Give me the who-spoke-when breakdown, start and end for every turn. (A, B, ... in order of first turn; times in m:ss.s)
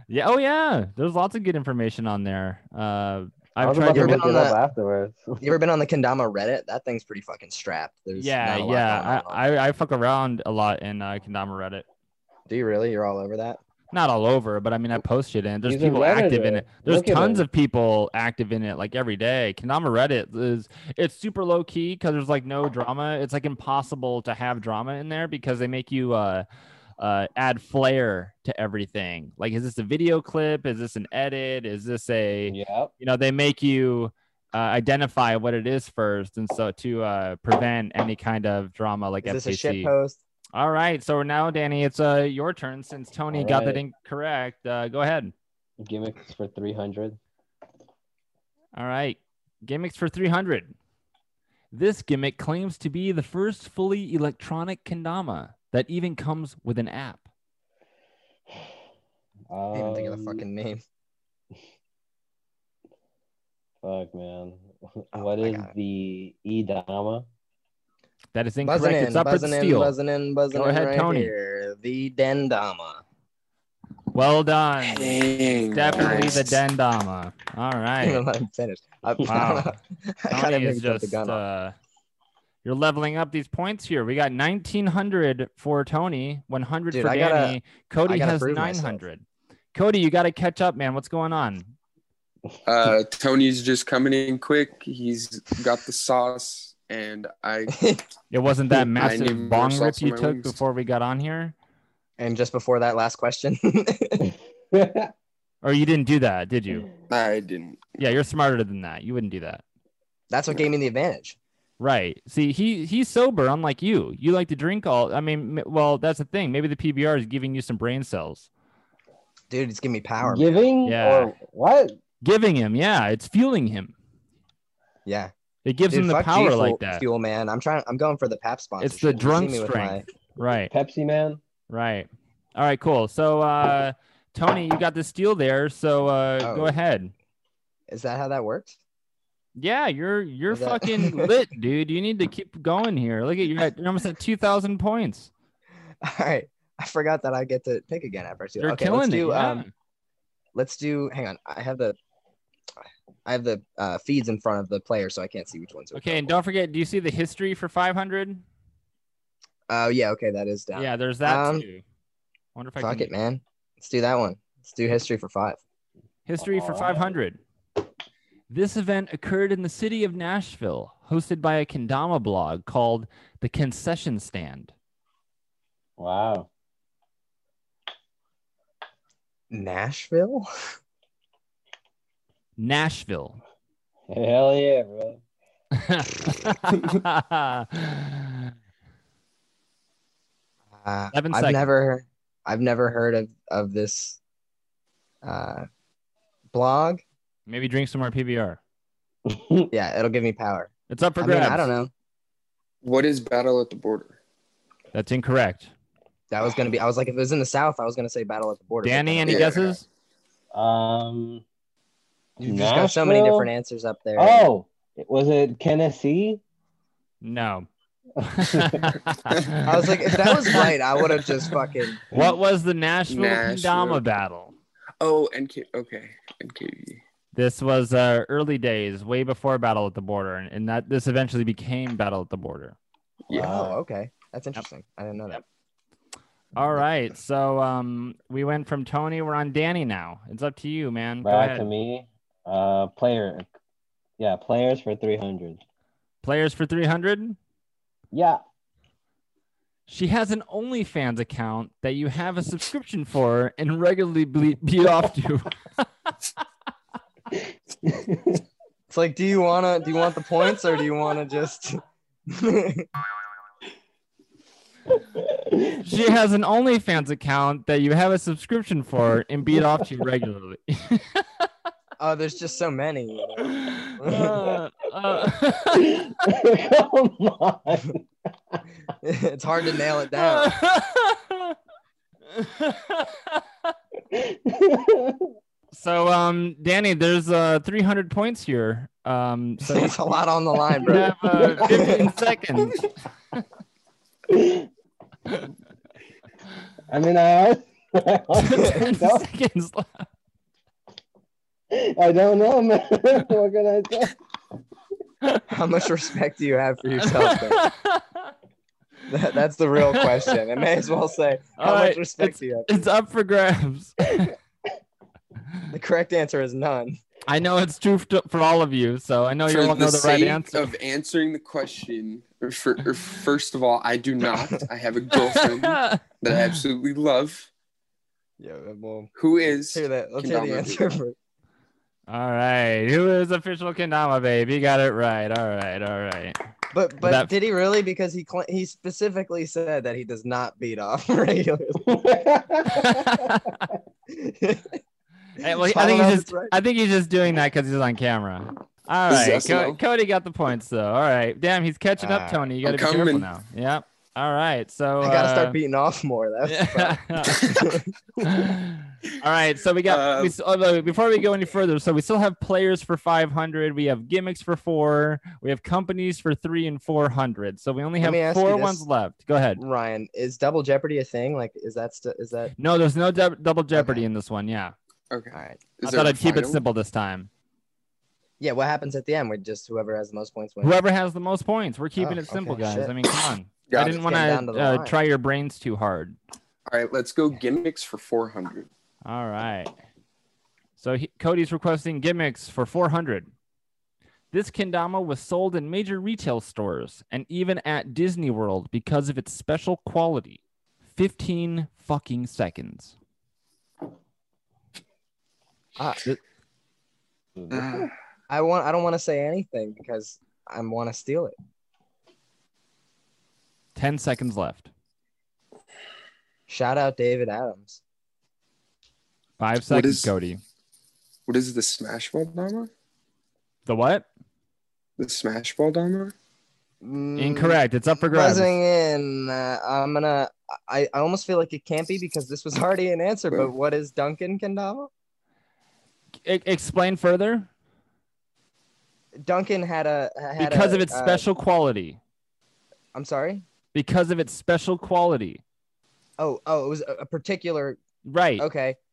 0:00.1-0:04.3 A
0:03.6-0:05.5 B
0:03.9-0:04.6 C
0:05.4-0:09.4 C
0:08.2-0:11.8 A
0:12.5-0:13.6 C
0:13.9-0:26.5 A
0:15.6-0:17.5 B
0:27.0-0:39.9 A
0:32.5-0:32.9 B
0:39.2-0:40.2 C
0:40.5-0:45.3 A
0:43.3-0:43.8 B
0:45.8-0:47.2 B
0:48.8-0:50.7 A
0:51.7-0:57.2 A
0:59.5-1:00.4 B
0:59.7-1:00.8 C
1:03.8-1:07.3 B
1:05.1-1:05.7 C
1:08.3-1:10.0 A
1:08.6-1:13.0 C
1:10.5-1:11.3 A
1:14.1-1:18.2 A
1:14.8-1:16.5 D
1:16.0-1:16.3 C
1:18.0-1:21.4 C
1:19.2-1:19.8 A
1:20.3-1:21.8 A
1:22.6-1:29.2 A
1:26.9-1:29.0 C
1:29.7-1:31.7 A
1:32.6-1:37.7 D
1:37.7-1:38.0 C
1:38.3-1:41.5 A
1:39.0-1:40.6 D
1:42.2-1:44.3 C
1:44.7-1:45.1 B
1:45.6-1:46.9 A
1:47.1-1:47.9 D
1:48.0-1:49.6 A
1:50.3-1:51.4 C
1:51.8-1:58.5 A
1:59.5-2:00.6 C
2:00.2-2:02.0 B
2:00.8-2:01.3 A
2:02.2-2:03.9 A
2:05.1-2:05.3 C
2:05.6-2:07.0 A
2:05.9-2:10.0 C
2:08.8-2:10.7 A
2:10.7-2:11.4 B
2:11.7-2:17.1 A
2:16.4-2:16.8 C
2:17.9-2:18.8 C
2:19.6-2:25.3 A
2:20.5-2:21.3 C
2:26.0-2:29.6 C
2:28.6-2:29.7 A
2:30.6-2:32.0 C
2:33.3-2:36.3 C
2:35.9-2:38.4 A
2:39.7-2:41.6 C
2:40.8-2:41.8 A
2:42.6-2:43.1 A
2:42.8-2:45.6 C
2:46.3-2:47.4 A
2:46.4-2:47.2 B
2:48.5-2:54.7 A
2:56.0-2:56.5 B
2:59.5-3:00.5 C
3:02.6-3:03.4 A
3:04.1-3:05.2 B
3:05.8-3:08.5 A
3:10.8-3:14.2 C
3:11.1-3:11.7 A
3:15.2-3:15.7 C
3:16.5-3:17.0 C
3:17.5-3:18.6 A
3:19.3-3:19.7 B
3:19.7-3:21.9 C
3:20.9-3:21.7 A
3:22.8-3:24.2 D
3:24.9-3:25.7 A
3:26.3-3:29.8 C
3:28.8-3:29.9 A
3:29.3-3:29.6 D
3:30.5-3:31.4 B
3:32.4-3:33.5 B
3:32.4-3:34.5 C
3:34.2-3:36.4 B
3:37.2-3:37.7 A
3:38.2-3:40.7 A
3:38.4-3:38.9 B
3:39.6-3:42.0 C
3:42.1-3:44.6 A
3:43.1-3:44.0 D
3:45.0-3:47.0 D
3:47.3-3:52.8 A
3:53.3-3:53.6 D
3:53.3-3:53.8 B
3:53.3-3:55.4 C
3:56.6-4:01.7 A
4:01.2-4:03.5 B
4:04.2-4:05.6 B
4:06.2-4:07.4 A
4:08.1-4:08.4 B
4:09.9-4:15.8 A
4:17.8-4:18.4 B
4:18.9-4:22.9 C
4:25.2-4:25.8 B
4:25.8-4:31.5 A
4:32.0-4:34.6 C
4:33.4-4:36.1 A
4:35.7-4:38.0 B
4:39.0-4:40.6 C
4:40.1-4:41.6 A
4:42.3-4:43.4 A
4:44.1-4:45.3 B
4:45.7-4:50.0 A
4:49.6-4:52.1 C
4:50.8-4:52.8 A
4:50.9-4:52.0 B
4:54.3-4:54.7 B
4:56.9-4:59.3 B
4:58.4-5:00.1 A
5:01.7-5:04.2 B
5:05.5-5:07.7 C
5:07.0-5:08.3 A
5:09.1-5:12.8 C
5:09.9-5:10.3 A
5:11.6-5:14.4 A
5:15.7-5:17.0 C
5:17.3-5:20.7 A
5:19.5-5:27.5 D
5:25.1-5:26.6 A
5:28.4-5:29.1 C
5:29.2-5:30.8 D
5:29.7-5:31.2 C
5:32.1-5:36.4 A
5:36.7-5:41.8 C
5:37.0-5:37.3 A
5:41.9-5:43.2 B
5:42.7-5:43.7 A
5:44.1-5:44.8 C
5:45.4-5:55.6 A
5:45.5-5:46.5 C
5:49.1-5:49.8 D
5:52.0-5:52.4 C
5:52.6-5:53.3 D
5:55.0-5:57.9 C
5:56.4-5:57.6 A
5:58.2-6:09.6 A
5:59.9-6:00.4 D
6:08.0-6:08.8 C
6:09.6-6:12.5 C
6:12.6-6:14.8 A
6:13.7-6:14.0 C
6:15.1-6:16.6 D
6:15.3-6:15.7 C
6:15.8-6:17.3 A
6:18.4-6:20.8 C
6:20.6-6:26.2 A
6:22.0-6:22.9 C
6:23.7-6:24.0 D
6:23.7-6:25.0 C
6:26.7-6:28.7 D
6:29.0-6:29.7 A
6:30.8-6:33.3 A
6:34.3-6:43.0 A
6:45.8-6:46.2 C
6:47.4-6:47.9 B
6:47.5-6:47.9 D
6:48.3-6:51.4 C
6:53.8-6:54.7 A
6:56.5-6:57.8 C
6:59.4-7:00.4 A
6:59.7-7:00.1 D
7:01.3-7:02.7 D
7:03.7-7:04.1 A
7:05.0-7:06.1 D
7:06.8-7:14.9 C
7:07.2-7:08.6 A
7:16.2-7:17.5 A
7:19.2-7:21.2 C
7:20.4-7:22.0 A
7:22.9-7:23.4 C
7:23.7-7:25.4 A
7:26.2-7:27.8 C
7:28.0-7:28.5 A
7:28.4-7:28.8 C